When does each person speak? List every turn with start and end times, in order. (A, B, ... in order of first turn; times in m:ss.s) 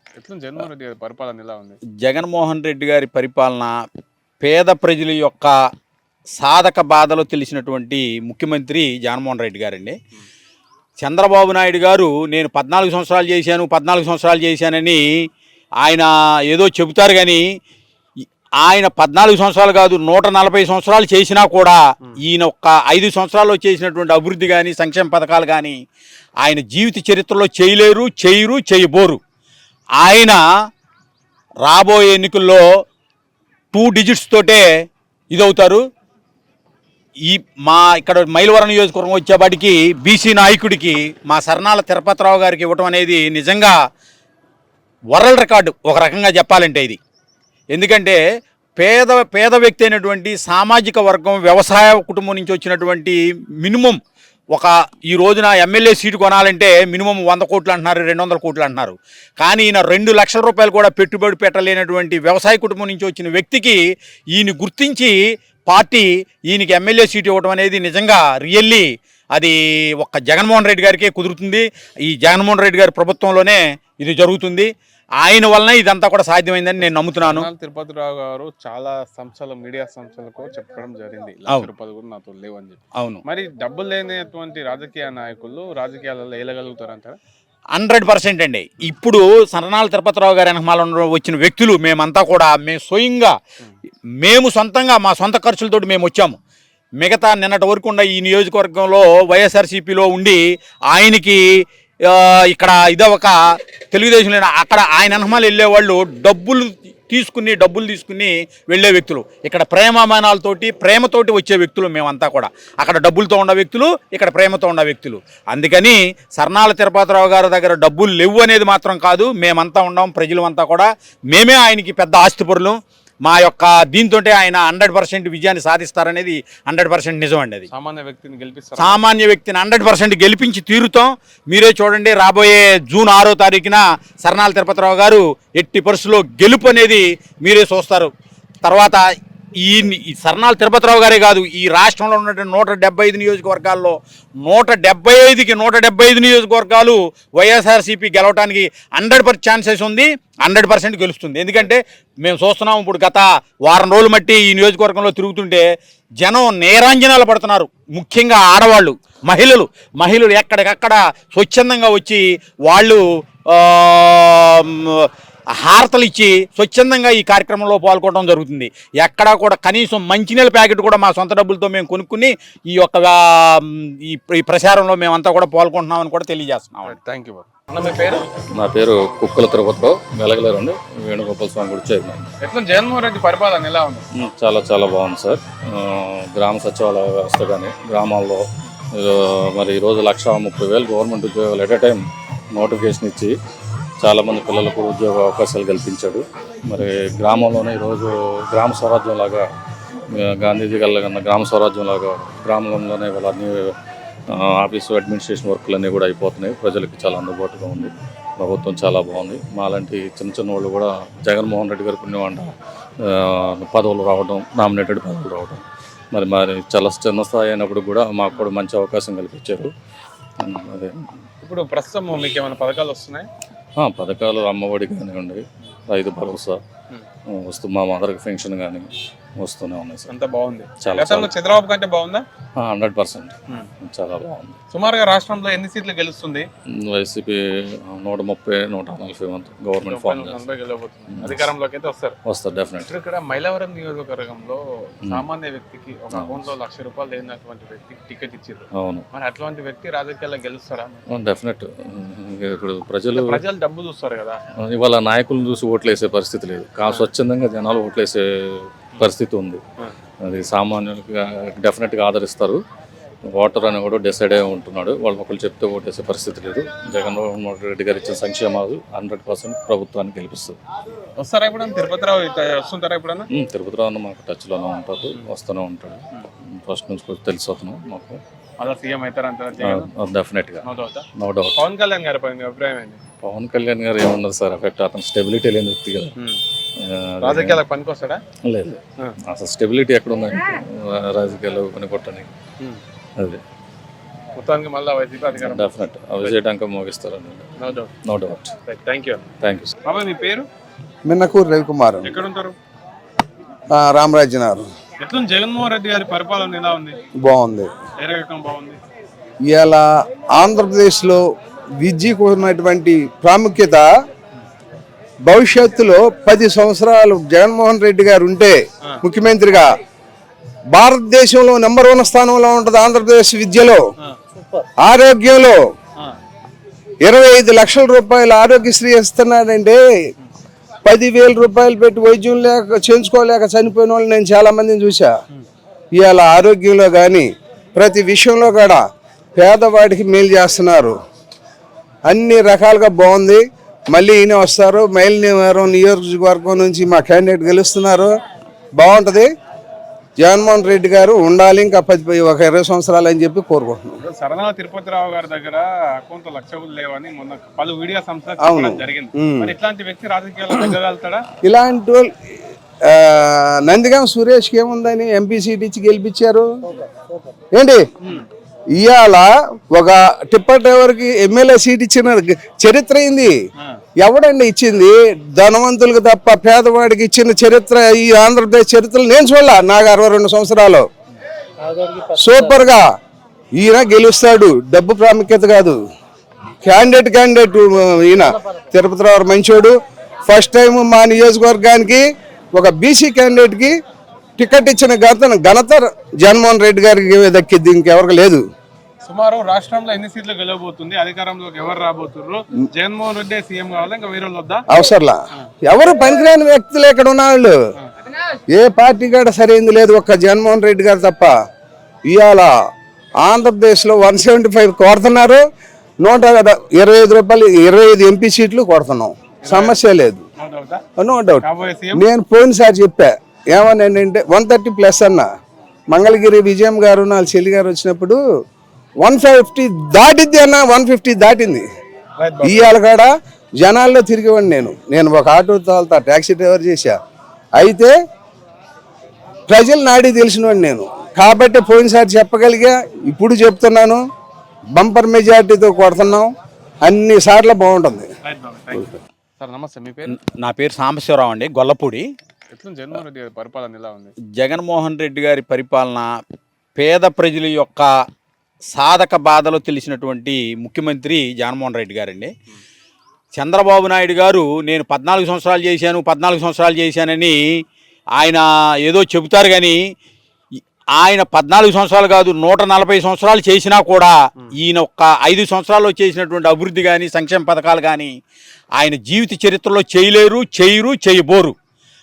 0:00.2-0:01.8 A
0:02.0-0:03.7 B
0:04.4-0:05.5 B
0:06.4-0:10.0 B
0:11.0-0:15.0 B
0:15.8-0:17.4 B
0:18.6-0:25.8 B
0:26.4-0:29.2 B
0:30.0-0:30.4 B
0:31.6-0:32.6 B
0:33.7-0:34.6 B
0:35.3-0:35.8 B
0:37.2-0:43.7 B
0:45.1-0:47.0 B
0:47.7-0:48.2 B
0:48.8-0:54.0 B
0:54.5-1:03.8 B
1:04.3-1:05.2 B
1:05.7-1:14.7 B
1:15.2-1:17.5 B
1:17.2-1:27.2 A
1:27.7-1:33.3 B
1:34.2-1:36.4 B
1:37.0-1:40.4 B
1:40.9-1:41.4 B
1:42.1-1:43.4 B
1:43.9-2:07.7 B
2:07.7-2:09.0 A
2:08.8-2:18.1 B
2:18.6-2:19.0 B
2:19.6-2:35.6 B
2:36.2-2:57.0 B
2:56.8-2:58.3 A
2:58.5-3:02.3 C
3:02.4-3:04.0 A
3:04.1-3:13.3 C
3:14.0-3:19.4 C
3:20.1-3:23.7 C
3:24.3-3:39.7 C
3:40.4-3:41.0 C
3:41.4-3:43.3 A
3:43.8-3:46.6 C
3:47.3-3:50.1 C
3:50.1-3:52.2 A
3:50.8-3:51.3 C
3:52.6-3:54.6 C
3:54.7-3:56.5 A
3:56.8-4:00.4 C
3:59.8-4:02.2 A
4:01.1-4:01.5 C
4:02.2-4:02.9 C
4:02.9-4:11.0 A
4:06.1-4:06.5 C
4:08.7-4:09.0 C
4:11.1-4:13.4 C
4:13.1-4:14.4 A
4:14.6-4:19.6 C
4:20.2-4:22.6 C
4:23.3-4:30.6 C
4:31.2-4:33.3 A
4:33.3-4:38.2 C
4:38.6-4:39.9 A
4:39.6-4:40.6 C
4:40.6-4:43.0 A
4:41.2-4:41.6 C
4:43.2-4:46.1 C
4:46.8-4:47.6 C
4:47.2-4:48.2 A
4:48.4-4:52.3 C
4:54.3-4:56.4 A
4:55.4-4:58.5 C
4:57.6-4:57.9 A
4:58.6-4:59.3 A
4:59.4-4:59.7 C
4:59.8-5:00.5 A
5:01.1-5:02.2 D
5:02.0-5:02.6 A
5:03.7-5:04.6 D
5:05.0-5:07.0 A
5:07.2-5:07.7 D
5:08.0-5:08.8 A
5:09.5-5:09.8 D
5:10.4-5:11.2 D
5:11.8-5:13.9 D
5:15.2-5:19.7 D
5:20.7-5:23.8 D
5:24.8-5:25.6 D
5:27.0-5:29.8 D
5:30.8-5:35.1 D
5:36.0-5:38.8 D
5:39.4-5:40.9 D
5:42.0-5:48.1 D
5:48.8-5:49.3 D
5:50.2-5:54.0 D
5:54.0-6:01.2 A
5:58.4-5:59.5 D
6:01.4-6:02.1 D
6:02.9-6:06.5 D
6:07.5-6:07.8 D
6:08.8-6:13.3 D
6:14.0-6:20.8 D
6:22.0-6:22.8 D
6:23.6-6:25.8 D
6:26.6-6:29.7 D
6:30.3-6:32.0 D
6:32.5-6:33.7 D
6:34.4-6:38.4 D
6:39.0-6:44.6 A
6:44.7-6:47.6 D
6:48.5-6:51.3 D
6:52.1-6:52.5 D
6:53.2-6:55.4 D
6:56.0-7:00.2 D
6:59.4-6:59.8 A
7:00.4-7:00.8 A
7:01.0-7:01.4 D
7:01.4-7:02.0 A
7:01.9-7:05.3 D
7:05.9-7:08.2 D
7:09.0-7:11.6 D
7:12.2-7:12.7 A
7:12.4-7:13.1 D
7:13.6-7:17.0 D
7:17.6-7:17.9 D
7:19.5-7:24.0 D
7:24.8-7:26.3 D
7:26.8-7:28.1 D
7:28.2-7:30.2 A
7:30.1-7:32.0 B
7:32.5-7:34.1 A
7:34.4-7:36.1 B
7:36.8-7:37.9 B
7:38.7-7:42.3 B
7:43.4-7:47.4 B
7:48.2-7:49.8 B
7:51.0-7:58.1 B
7:58.8-8:01.5 B